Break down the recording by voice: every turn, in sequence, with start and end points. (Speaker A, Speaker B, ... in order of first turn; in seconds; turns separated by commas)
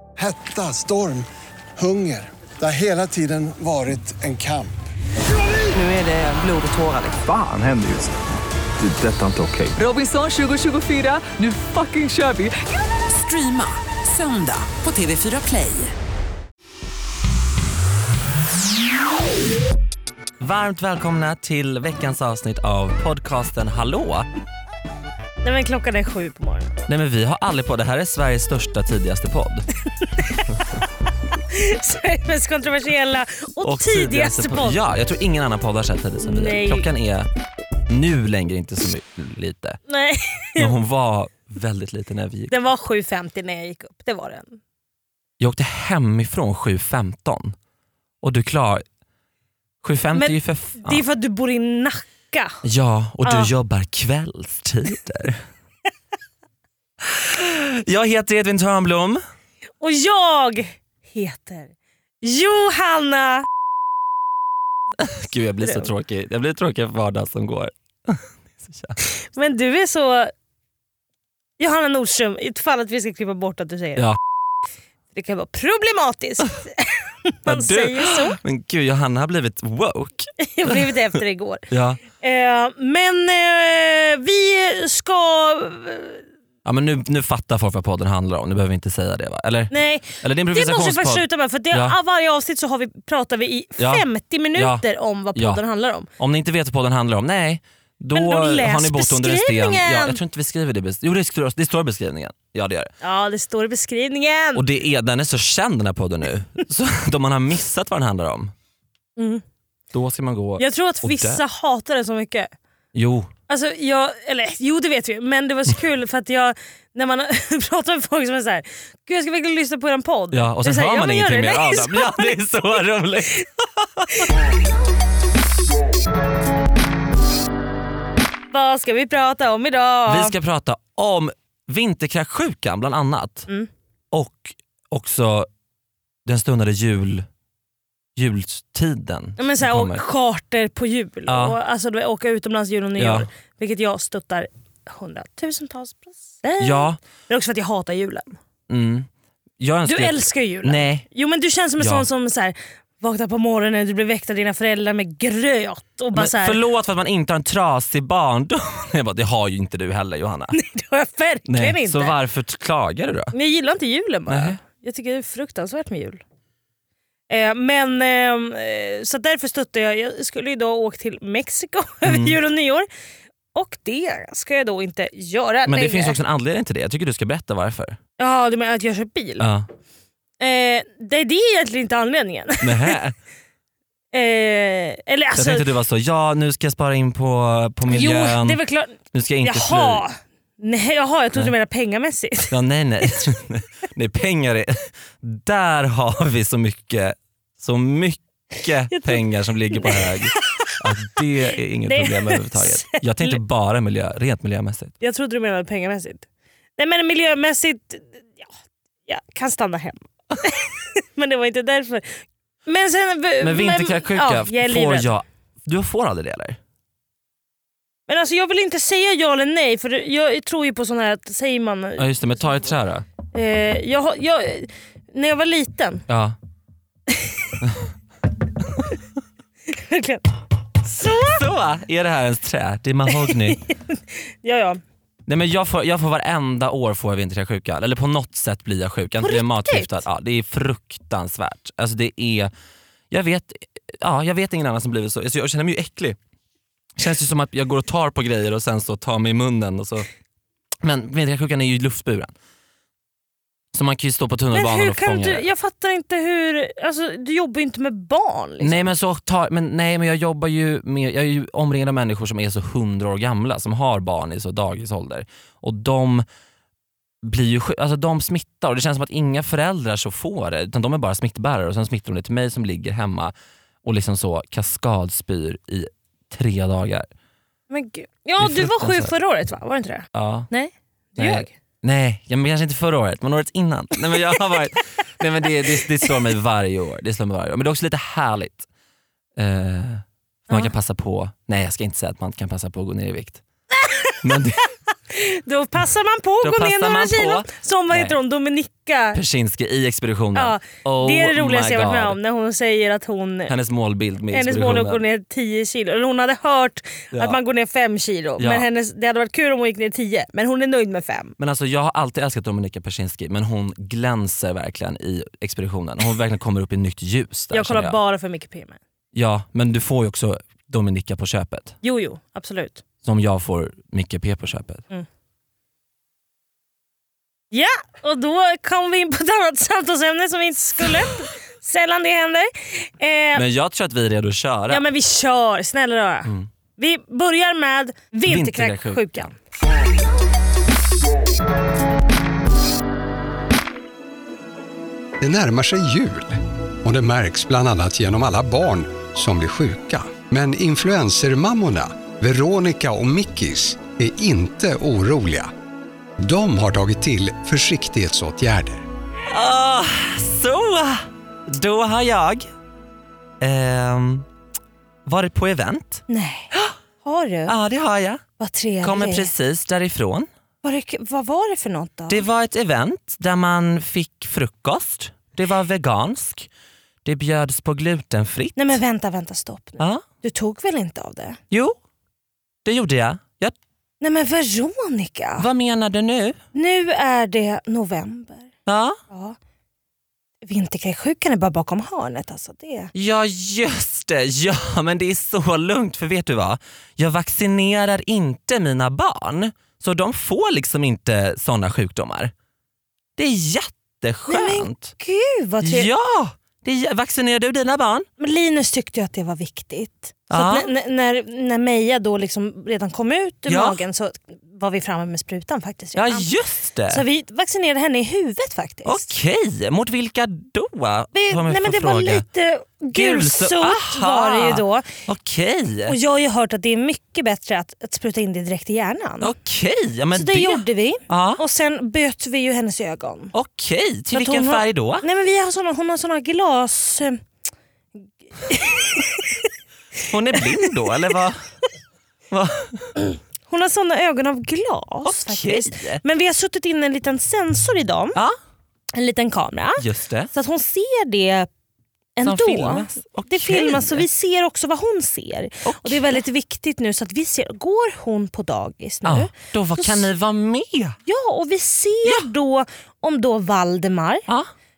Speaker A: 0.2-1.2, Speaker A: 1.8-4.7, Speaker B: 5.7-7.2, Speaker C: 7.2-8.2, Speaker C: 8.8-9.8, Speaker B: 9.8-15.9, Speaker D: 20.4-24.2, Speaker E: 25.4-26.7, Speaker D: 26.9-29.7, Speaker E: 30.0-30.5, Speaker E: 31.5-34.8, Speaker D: 33.6-37.3, Speaker E: 36.2-36.9, Speaker D: 37.9-39.8, Speaker E: 39.9-40.7, Speaker D: 40.6-42.5, Speaker E: 42.5-44.6, Speaker D: 45.4-47.5, Speaker D: 48.2-48.8, Speaker D: 49.8-51.0, Speaker E: 50.1-52.5, Speaker D: 52.6-55.4, Speaker E: 53.2-53.5, Speaker D: 57.1-59.2, Speaker E: 59.8-63.5, Speaker D: 65.0-69.0, Speaker E: 65.6-65.9, Speaker E: 69.0-70.3, Speaker E: 71.6-74.1, Speaker E: 75.1-78.4, Speaker D: 77.5-80.8, Speaker E: 80.4-81.7, Speaker D: 81.7-82.0, Speaker E: 82.2-86.2, Speaker D: 86.6-92.0, Speaker E: 89.7-96.1, Speaker D: 93.8-94.8, Speaker D: 95.3-95.6, Speaker D: 96.2-102.9, Speaker E: 98.1-100.2, Speaker E: 103.0-104.6, Speaker D: 104.5-108.5, Speaker E: 109.2-109.4, Speaker D: 109.9-111.4, Speaker E: 110.6-112.5, Speaker D: 112.9-113.3, Speaker E: 113.5-122.4, Speaker D: 120.3-124.3, Speaker E: 128.5-130.3, Speaker D: 130.1-133.5, Speaker D: 134.1-135.5, Speaker D: 136.2-137.2, Speaker D: 138.2-140.0, Speaker E: 139.4-148.4, Speaker D: 141.3-141.6, Speaker D: 143.0-143.3, Speaker D: 146.6-147.0, Speaker D: 148.7-149.1, Speaker D: 149.6-151.1, Speaker E: 149.8-156.6, Speaker D: 151.8-152.1, Speaker D: 156.1-160.6, Speaker E: 160.5-162.1, Speaker D: 161.5-163.3, Speaker E: 163.3-166.2, Speaker D: 164.3-164.6, Speaker E: 167.3-172.9, Speaker D: 172.0-172.3, Speaker E: 173.5-176.2, Speaker D: 175.7-178.0, Speaker E: 178.2-179.4, Speaker D: 179.4-179.7, Speaker E: 180.4-183.0, Speaker D: 182.6-183.1, Speaker E: 184.1-185.7, Speaker D: 185.3-190.0, Speaker E: 187.9-192.5, Speaker D: 192.5-204.9, Speaker E: 198.9-199.2, Speaker E: 199.7-201.1, Speaker E: 201.8-203.4, Speaker E: 205.0-208.4, Speaker E: 209.1-215.1, Speaker D: 213.4-216.6, Speaker E: 218.1-222.1, Speaker D: 222.0-223.1, Speaker E: 223.3-226.0, Speaker D: 226.1-226.3, Speaker E: 229.7-230.3, Speaker E: 230.8-231.4, Speaker D: 231.2-233.6, Speaker E: 233.1-234.8, Speaker D: 235.3-242.5, Speaker E: 239.2-240.0, Speaker D: 243.1-246.2, Speaker D: 247.0-250.1, Speaker D: 250.8-252.3, Speaker D: 253.7-255.4, Speaker E: 254.5-258.9, Speaker D: 258.6-266.2, Speaker D: 267.2-273.3, Speaker D: 273.8-277.1, Speaker E: 277.7-281.5, Speaker D: 278.4-279.1, Speaker D: 280.1-280.5, Speaker D: 281.2-288.6, Speaker D: 289.4-293.4, Speaker E: 293.8-294.3, Speaker D: 294.2-294.7, Speaker E: 295.1-299.2, Speaker D: 296.4-298.2, Speaker D: 299.1-302.2, Speaker E: 300.3-303.5, Speaker D: 303.5-305.0, Speaker E: 304.3-311.3, Speaker D: 307.1-307.4, Speaker D: 308.4-308.7, Speaker D: 311.4-318.0, Speaker E: 317.5-318.8, Speaker D: 319.1-321.7, Speaker E: 321.8-322.8, Speaker D: 323.0-324.8, Speaker E: 327.5-333.4, Speaker D: 333.3-334.8, Speaker E: 334.7-339.4, Speaker D: 338.3-339.1, Speaker F: 345.2-355.5, Speaker F: 356.2-358.8, Speaker D: 359.3-362.5, Speaker D: 363.4-364.2, Speaker D: 365.1-366.7, Speaker E: 366.1-366.5, Speaker E: 367.0-367.5, Speaker D: 367.5-368.2, Speaker E: 368.4-369.3, Speaker D: 368.8-370.3, Speaker E: 370.6-372.2, Speaker D: 372.1-376.5, Speaker D: 377.0-378.7, Speaker E: 378.6-381.4, Speaker D: 381.5-381.8, Speaker D: 382.6-383.5, Speaker E: 384.0-385.5, Speaker D: 385.4-386.4, Speaker E: 386.5-388.5, Speaker D: 388.6-389.0, Speaker E: 389.1-389.4, Speaker E: 390.4-392.9, Speaker D: 392.9-402.3, Speaker D: 403.2-404.9, Speaker E: 404.3-405.9, Speaker D: 405.6-408.1, Speaker E: 408.2-416.3, Speaker D: 410.3-410.7, Speaker D: 413.5-413.8, Speaker D: 415.9-417.0, Speaker E: 416.9-419.1, Speaker D: 418.9-422.2, Speaker E: 421.1-424.9, Speaker D: 422.9-425.9, Speaker E: 425.9-429.3, Speaker D: 429.2-431.4, Speaker E: 430.1-433.3, Speaker D: 433.3-435.0, Speaker E: 434.1-437.2, Speaker E: 438.4-439.4, Speaker D: 440.1-441.4, Speaker E: 440.3-440.7, Speaker D: 442.3-442.9, Speaker E: 443.1-448.2, Speaker D: 445.0-446.0, Speaker E: 448.9-451.5, Speaker D: 449.8-450.3, Speaker E: 452.2-460.1, Speaker D: 452.2-454.1, Speaker D: 455.6-456.2, Speaker D: 459.0-460.9, Speaker E: 461.1-464.2